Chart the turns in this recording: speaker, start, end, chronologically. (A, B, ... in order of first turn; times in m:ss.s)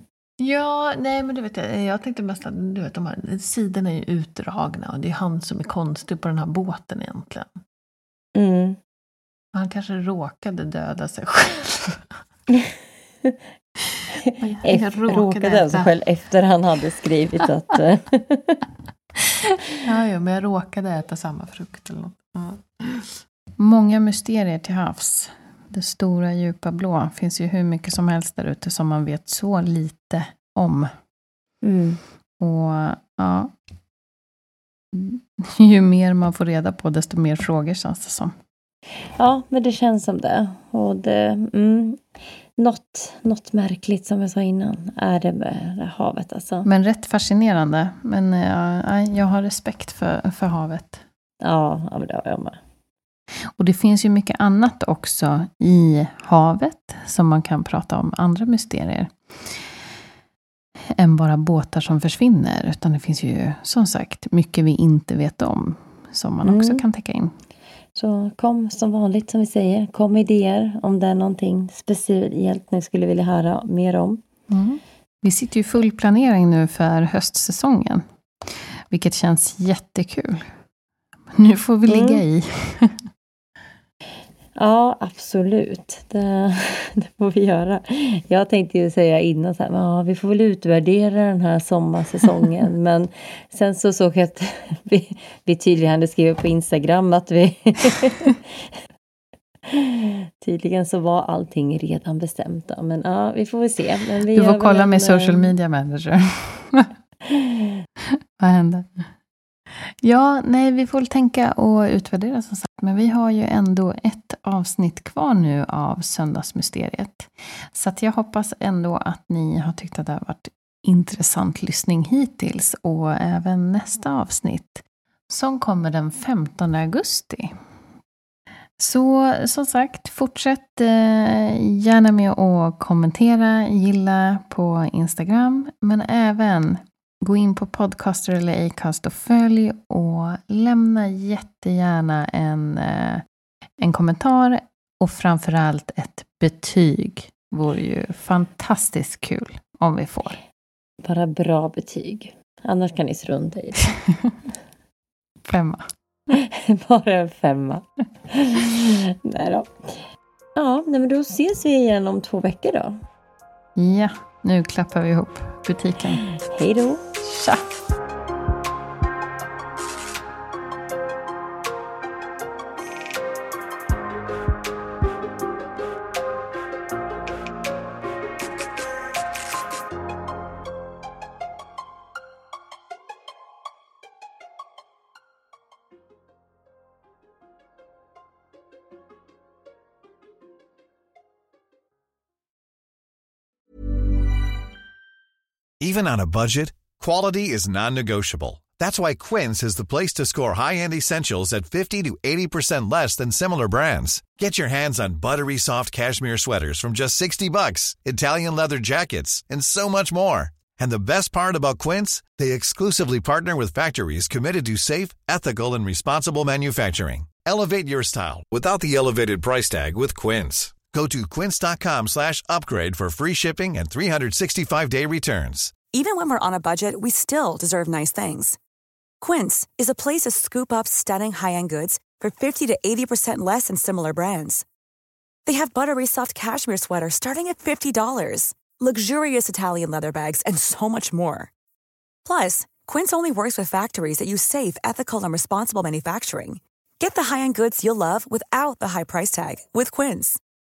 0:00.4-0:07.5 A
0:08.3-0:08.8 B
0:09.5-0:12.1 A
0:14.4-0:15.9 A
0:14.6-0:18.6 B
0:19.6-0:30.9 A
0:31.6-0:32.0 B
0:32.4-0:33.5 A
0:34.9-0:38.3 A
0:39.1-0:42.0 B
0:42.6-0:46.7 B
0:46.6-0:51.0 A
0:51.4-0:52.6 B
0:53.6-0:59.6 A
1:00.9-1:07.3 A
1:06.4-1:06.8 B
1:07.9-1:14.2 B
1:14.5-1:20.5 A
1:21.3-1:22.9 A
1:21.9-1:22.2 B
1:24.6-1:38.6 B
1:39.7-1:45.5 B
1:44.3-1:46.9 A
1:47.3-1:47.7 B
1:48.4-1:49.1 A
1:49.7-2:07.5 A
2:08.8-2:23.2 A
2:23.8-2:30.4 A
2:31.0-2:33.9 B
2:35.4-2:35.8 A
2:36.3-2:40.0 B
2:40.6-2:43.0 B
2:43.8-2:46.2 A
2:46.4-2:47.0 B
2:47.2-2:47.7 A
3:15.8-3:45.8 C
3:45.9-3:48.6 D
3:49.2-3:54.6 D
3:55.4-4:01.5 D
4:02.2-4:10.4 D